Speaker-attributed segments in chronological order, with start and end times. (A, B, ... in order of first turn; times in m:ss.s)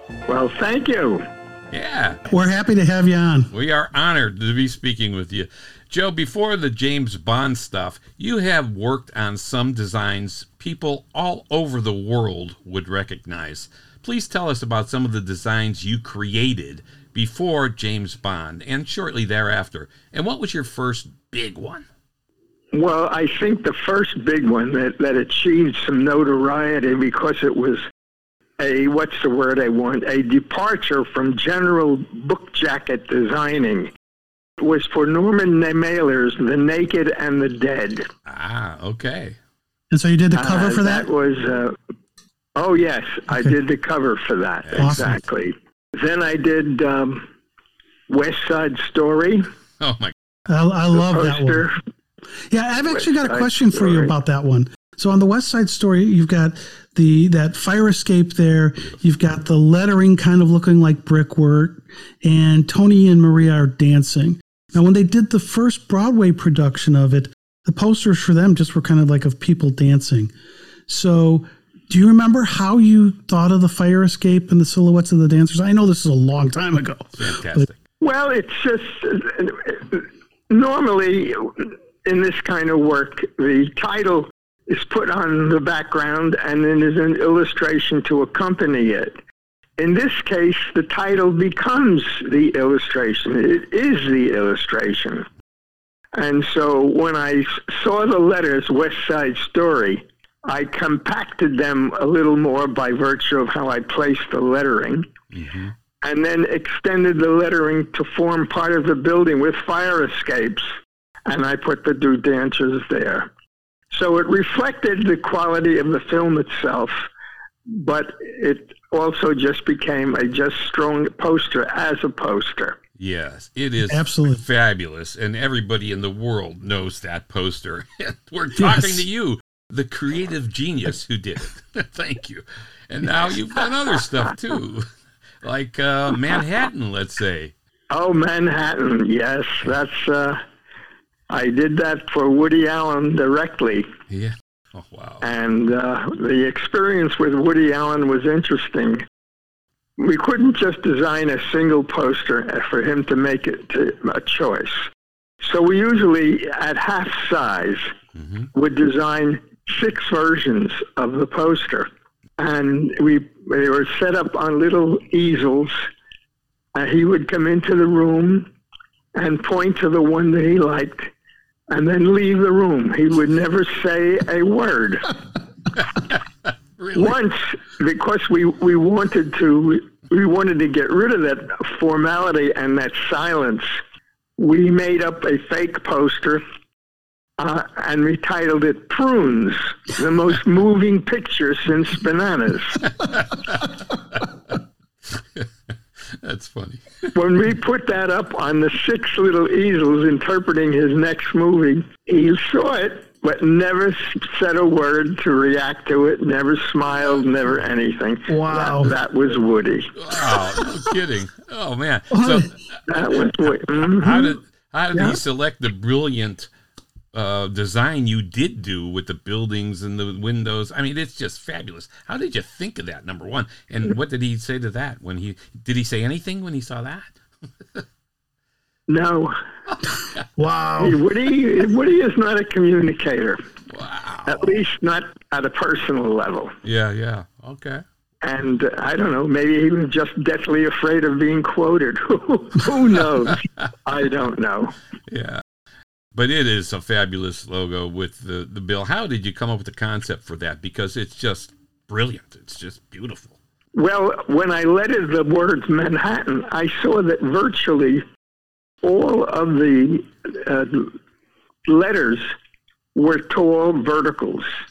0:00.3-0:01.3 A
0:01.7-0:02.2 B
0:02.3-0:03.5 C
0:03.5-0:21.9 B
0:22.7-0:27.8 A
0:28.6-0:33.9 A
0:34.6-0:38.1 A
0:38.3-0:39.4 B
0:39.9-0:41.1 C
0:40.4-0:41.8 A
0:42.6-0:47.3 A
0:44.7-0:45.2 B
0:44.8-0:45.2 C
0:48.1-0:49.5 A
0:49.8-0:50.1 B
0:50.5-0:51.7 C
0:50.9-0:51.8 A
0:52.5-1:10.3 C
0:52.9-0:54.1 A
1:10.9-1:17.7 C
1:17.2-1:17.8 B
1:18.0-1:29.2 A
1:29.8-1:35.3 A
1:36.1-1:45.1 A
1:45.3-1:45.7 B
1:46.0-1:50.7 A
1:51.3-1:53.3 A
1:53.9-1:57.1 A
1:57.7-2:02.8 A
2:03.0-2:14.9 B
2:03.9-2:04.4 C
2:08.6-2:09.0 C
2:15.4-2:17.5 B
2:17.9-2:20.4 A
2:21.3-2:23.9 A
2:24.1-2:25.3 B
2:25.2-2:29.0 A
2:30.0-2:34.9 A
2:35.4-2:37.9 A
2:38.2-2:38.5 B
2:38.5-2:45.8 A
2:46.7-2:48.5 A
2:49.1-2:51.1 A
2:51.7-2:55.2 A
2:55.8-2:56.2 B
2:56.8-2:57.2 B
2:56.9-3:03.7 A
3:04.4-3:06.4 A
3:07.4-3:12.8 A
3:13.0-3:14.3 B
3:15.2-3:15.5 B
3:16.1-3:17.1 B
3:17.1-3:30.0 A
3:28.3-3:28.9 C
3:30.0-3:32.8 B
3:32.1-3:32.5 C
3:32.9-3:34.3 A
3:33.8-3:36.5 B
3:37.1-3:47.1 B
3:48.9-3:49.4 A
3:50.4-3:51.0 C
3:50.8-3:53.4 A
3:53.7-3:54.6 B
3:54.3-3:56.6 A
3:56.6-3:57.8 B
3:58.2-4:04.8 A
4:05.1-4:05.4 B
4:06.2-4:13.4 B
4:13.7-4:18.0 A
4:18.8-4:21.0 A
4:21.7-4:22.3 A
4:23.0-4:24.5 A